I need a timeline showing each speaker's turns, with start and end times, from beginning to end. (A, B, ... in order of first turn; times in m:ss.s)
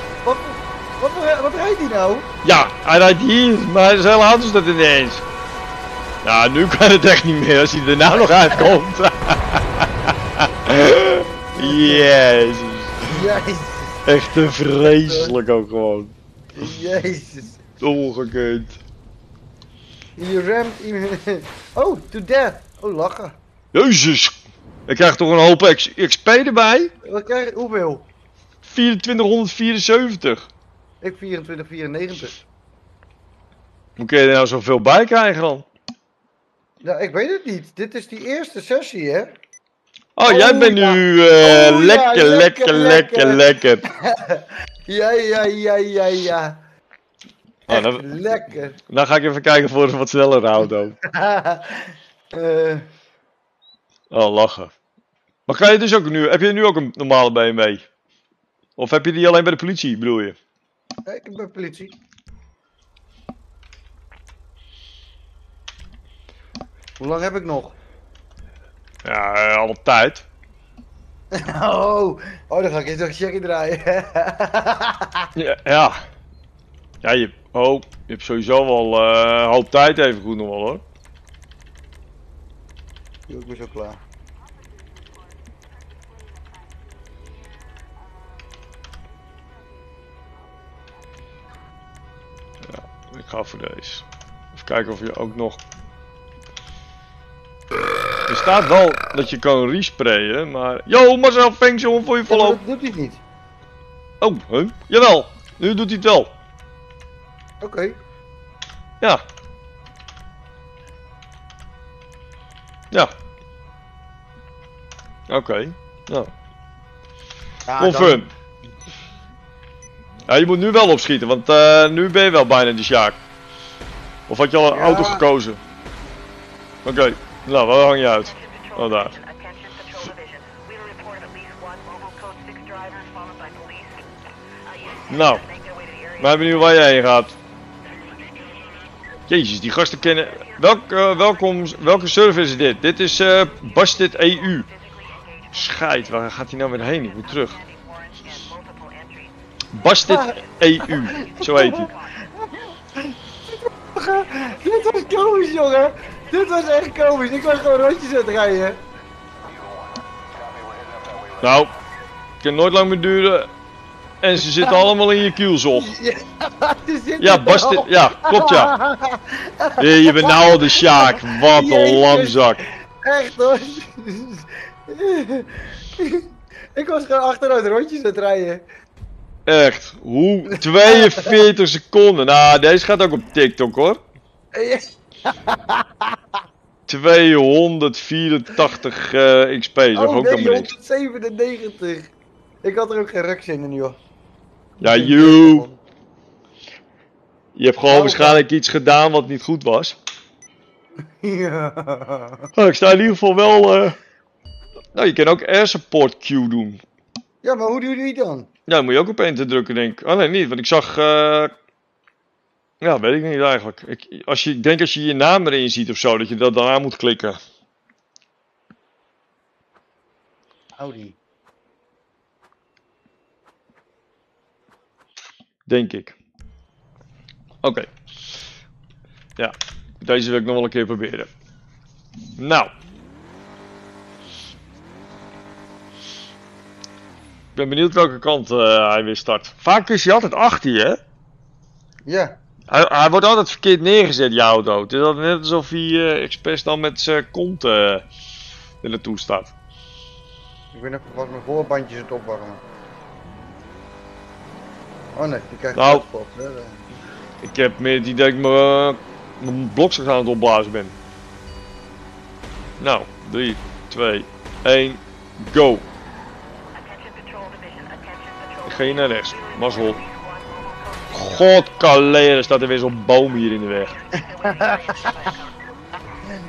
0:00.2-0:02.3 A
0:02.4-0:05.2 B
0:06.2-0:13.2 B
0:11.6-0:12.0 A
0:13.1-0:14.1 A
0:14.1-0:16.1 B
0:14.9-0:15.4 A
0:16.6-0:17.6 A
0:17.8-0:18.8 B
0:20.2-0:23.4 A
0:23.7-0:26.9 B
0:27.0-0:28.0 A
0:28.6-0:30.5 B
0:31.0-0:32.4 A
0:34.0-0:35.6 B
0:36.8-0:39.4 A
0:40.2-0:43.9 B
0:40.2-0:46.6 A
0:47.7-0:48.1 B
0:47.7-0:48.8 A
0:48.9-0:51.0 B
0:51.0-0:52.9 A
0:54.1-0:54.7 B
0:55.5-0:57.9 B
0:58.8-1:00.4 B
1:01.1-1:02.0 A
1:07.0-1:07.8 A
1:09.0-1:10.2 B
1:11.3-1:15.3 A
1:15.4-1:16.0 B
1:17.0-1:20.8 B
1:23.3-1:24.0 A
1:32.7-1:35.6 B
1:38.3-1:42.6 B
1:42.3-1:43.2 A
1:44.2-1:46.3 B
1:47.6-1:48.0 A
1:55.3-1:56.3 B
1:57.7-1:58.2 A
1:57.8-1:58.3 B
2:00.3-2:03.2 B
2:04.3-2:05.6 B
2:04.7-2:05.2 A
2:06.8-2:09.1 B
2:08.2-2:14.1 C
2:14.6-2:16.5 C
2:15.1-2:15.4 B
2:16.2-2:17.4 B
2:17.9-2:18.8 C
2:19.3-2:24.7 B
2:20.2-2:21.8 C
2:24.3-2:25.9 C
2:25.5-2:27.6 B
2:26.9-2:29.4 C
2:29.7-2:31.9 B
2:30.1-2:38.8 A
2:30.2-2:32.3 C
2:41.4-2:41.7 B
2:42.4-2:43.5 B
2:44.2-2:45.9 B
2:44.6-2:44.9 A
2:45.8-2:58.6 A
2:47.2-2:48.8 B
2:49.8-2:52.6 B
2:59.5-3:04.0 B
3:00.5-3:01.4 A
3:04.5-3:06.2 A
3:06.9-3:10.7 B
3:09.9-3:12.1 A
3:12.6-3:14.0 A
3:14.8-3:15.6 B
3:14.8-3:15.8 A
3:17.6-3:20.0 B
3:17.9-3:18.4 A
3:21.2-3:22.5 A
3:22.5-3:24.0 B
3:25.0-3:26.8 B
3:27.4-3:28.5 A
3:28.7-3:31.5 B
3:32.8-3:37.4 B
3:40.8-3:41.2 A
3:45.7-3:46.2 B
3:47.6-3:47.9 B
3:49.4-3:51.3 B
3:52.4-3:52.7 B
3:57.6-4:01.0 B
4:02.1-4:02.4 A
4:02.7-4:08.0 B
4:08.8-4:09.5 B
4:10.7-4:12.6 A
4:15.1-4:16.8 A
4:15.7-4:16.0 B
4:17.4-4:21.0 B
4:22.8-4:25.8 B
4:26.7-4:31.6 C
4:28.7-4:30.0 B
4:31.1-4:34.0 B
4:33.8-4:36.2 C
4:34.4-4:35.3 A